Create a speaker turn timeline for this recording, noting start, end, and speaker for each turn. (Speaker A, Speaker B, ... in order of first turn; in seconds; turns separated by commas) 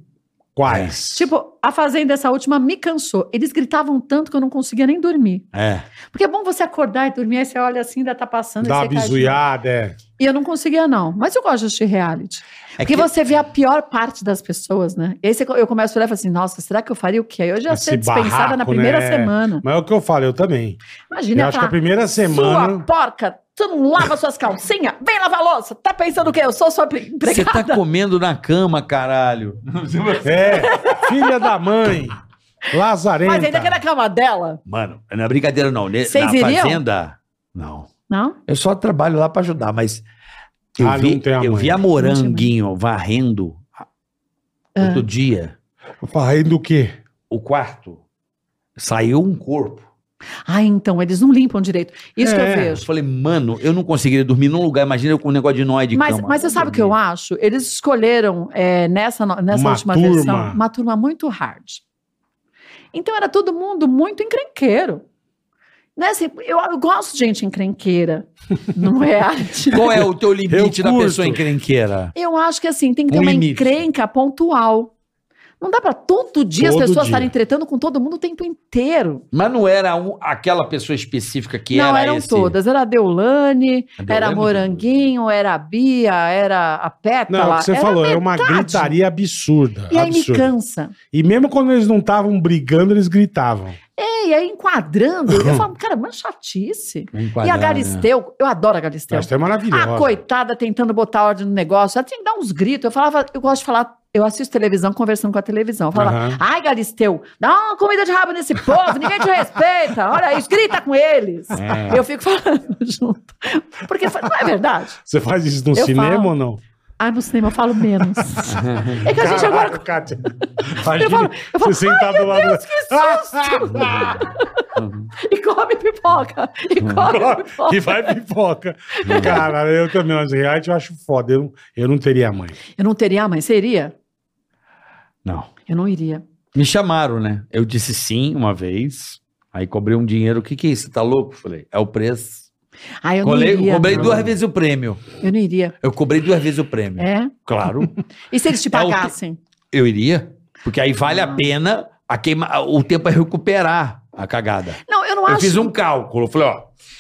Speaker A: 0.6-1.3, Speaker B: 0.7-0.9, Speaker C: 1.1-5.5, Speaker B: 5.5-5.8, Speaker C: 6.1-9.4, Speaker A: 8.6-10.0, Speaker C: 10.2-19.6, Speaker B: 12.8-13.1, Speaker A: 17.7-20.8, Speaker C: 21.1-27.8, Speaker A: 21.3-22.9, Speaker B: 27.2-30.8, Speaker A: 30.2-32.2, Speaker C: 30.5-31.4, Speaker A: 32.7-33.8, Speaker C: 33.2-34.6, Speaker B: 34.7-37.9, Speaker C: 36.1-36.8, Speaker C: 38.1-38.4, Speaker B: 38.5-40.0, Speaker B: 40.8-43.8, Speaker A: 40.8-41.8, Speaker C: 42.0-42.5, Speaker C: 44.8-45.0, Speaker B: 44.8-45.5, Speaker A: 46.0-46.9, Speaker B: 47.3-48.0, Speaker B: 48.8-49.9, Speaker C: 50.5-52.8, Speaker A: 52.2-52.8, Speaker B: 52.8-57.0, Speaker C: 55.9-61.8, Speaker A: 59.5-60.6, Speaker C: 62.9-65.0, Speaker C: 66.0-70.0, Speaker B: 69.7-72.1, Speaker A: 70.5-71.4, Speaker C: 72.2-74.9, Speaker B: 73.1-73.8, Speaker C: 75.6-79.2, Speaker A: 76.6-77.3, Speaker B: 79.3-82.6, Speaker C: 81.7-88.9, Speaker B: 84.0-84.9, Speaker A: 87.3-90.5, Speaker C: 89.9-90.9, Speaker A: 91.1-93.8, Speaker C: 94.0-115.0, Speaker A: 95.3-95.7, Speaker B: 97.1-98.1, Speaker A: 99.1-100.2, Speaker A: 106.0-106.4, Speaker B: 111.5-112.0, Speaker A: 115.0-116.6, Speaker C: 115.8-116.3, Speaker C: 117.0-119.8, Speaker B: 118.5-119.1, Speaker A: 119.0-124.2, Speaker C: 121.0-124.6, Speaker B: 124.8-125.1, Speaker C: 125.2-128.1, Speaker A: 127.0-132.6, Speaker C: 129.0-129.4, Speaker B: 129.1-129.4, Speaker C: 132.8-133.9, Speaker B: 135.2-135.5, Speaker C: 135.7-136.2, Speaker B: 136.6-142.5, Speaker C: 143.0-144.3, Speaker B: 143.2-145.1, Speaker C: 145.2-145.8, Speaker B: 145.8-148.0, Speaker C: 147.0-147.3, Speaker C: 148.3-149.4, Speaker B: 148.7-149.1, Speaker B: 149.7-156.7, Speaker C: 154.9-155.7